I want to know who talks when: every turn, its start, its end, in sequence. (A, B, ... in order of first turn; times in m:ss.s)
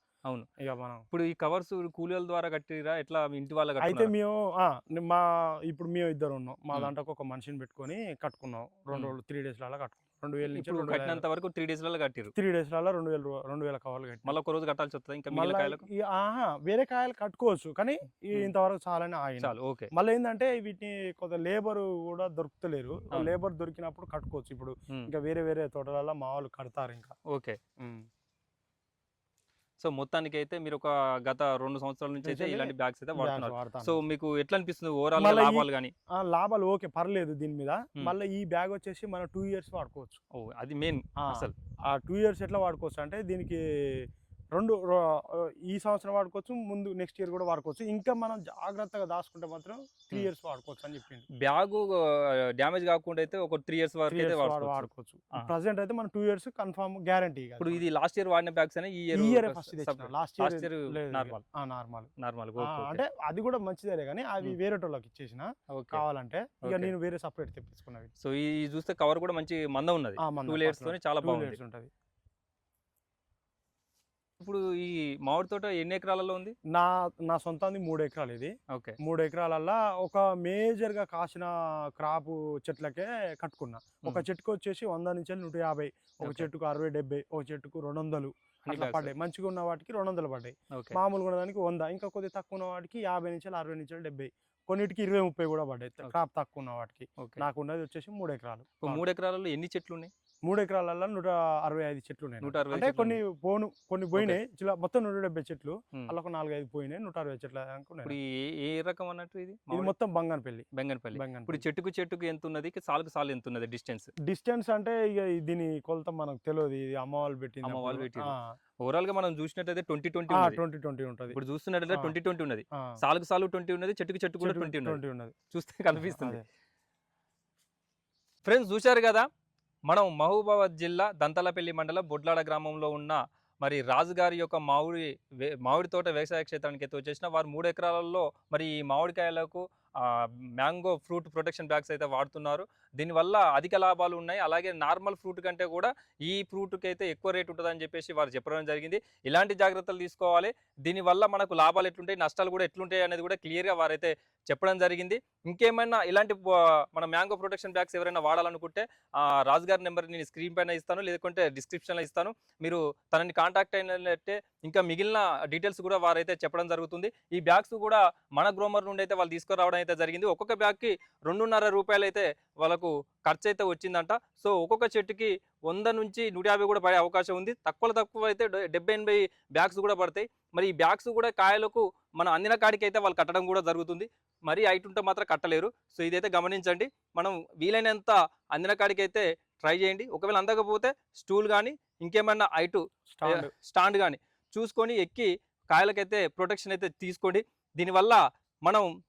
0:00.6-0:01.0 A
0:01.1-0:04.1 B
0:03.8-0:11.2 A
0:10.5-0:12.3 B
0:12.3-0:14.3 A
0:14.2-0:15.8 B
0:15.3-0:27.1 A
0:19.4-0:19.9 B
0:27.3-0:27.6 B
0:27.8-0:28.0 A
0:29.8-0:35.9 B
0:32.2-0:34.0 A
0:35.2-0:35.7 A
0:36.2-0:40.2 A
0:40.3-0:41.5 B
0:41.2-0:51.3 A
0:51.4-0:55.5 B
0:54.1-0:57.8 A
0:57.6-1:01.4 B
0:59.1-1:02.1 A
1:02.2-1:03.0 B
1:02.6-1:08.1 A
1:05.7-1:06.0 B
1:06.6-1:06.9 B
1:08.2-1:11.6 B
1:10.2-1:11.9 A
1:14.4-1:16.5 B
1:16.7-1:18.5 A
1:18.7-1:19.0 B
1:19.0-1:39.0 A
1:26.2-1:26.5 B
1:28.6-1:29.1 B
1:38.8-1:40.1 B
1:40.4-1:48.2 A
1:42.4-1:43.2 B
1:44.1-1:44.4 B
1:48.0-1:49.9 B
1:49.7-1:51.6 A
1:50.7-1:54.1 B
1:54.2-1:58.6 A
1:57.6-2:00.6 B
2:00.3-2:01.4 A
2:01.3-2:06.4 B
2:01.9-2:02.1 A
2:04.4-2:05.3 A
2:06.0-2:06.4 A
2:08.4-2:09.2 B
2:09.9-3:18.9 B
3:13.1-3:13.5 A